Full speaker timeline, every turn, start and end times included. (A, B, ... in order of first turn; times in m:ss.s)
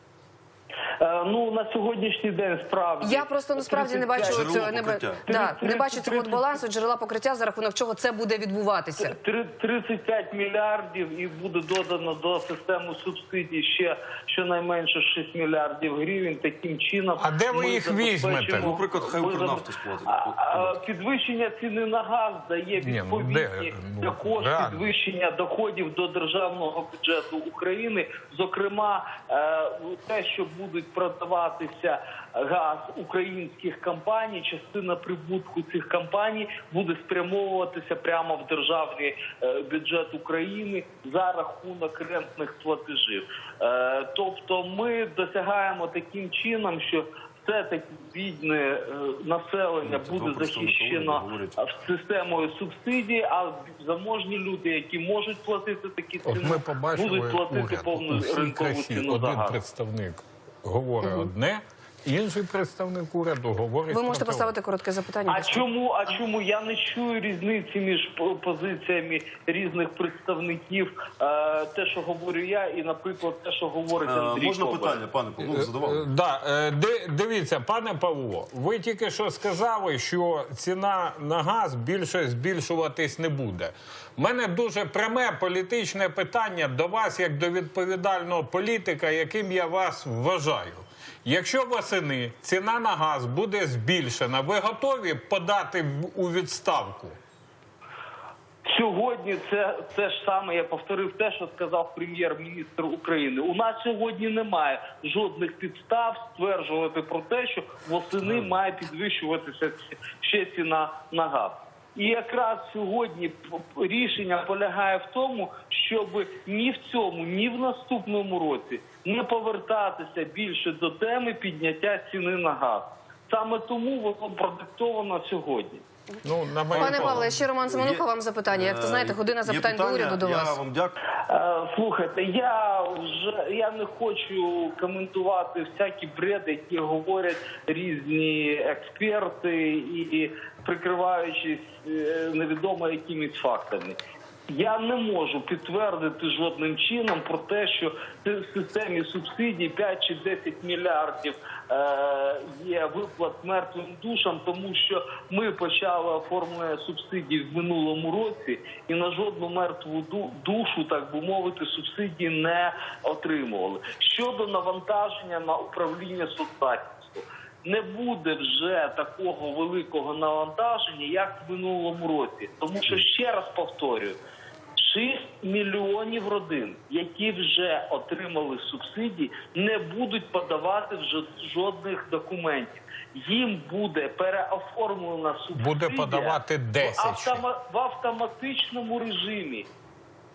0:01.0-0:04.7 A
0:03.0-0:09.2 B
0:04.2-0:05.3 C
0:05.2-0:06.5 A
0:09.0-0:59.6 A
0:17.2-0:18.8 D
0:18.5-0:20.8 C
0:22.8-0:24.9 D
0:49.8-0:51.6 C
0:56.2-1:04.5 D
1:03.9-1:05.7 B
1:05.3-1:15.0 A
1:14.0-1:16.0 C
1:15.4-1:37.2 D
1:38.7-2:05.8 A
2:06.2-2:07.3 D
2:06.7-2:11.0 C
2:06.8-2:10.6 B
2:11.3-2:24.0 A
2:24.5-2:54.2 A
2:54.8-3:09.7 A
3:05.5-3:07.4 D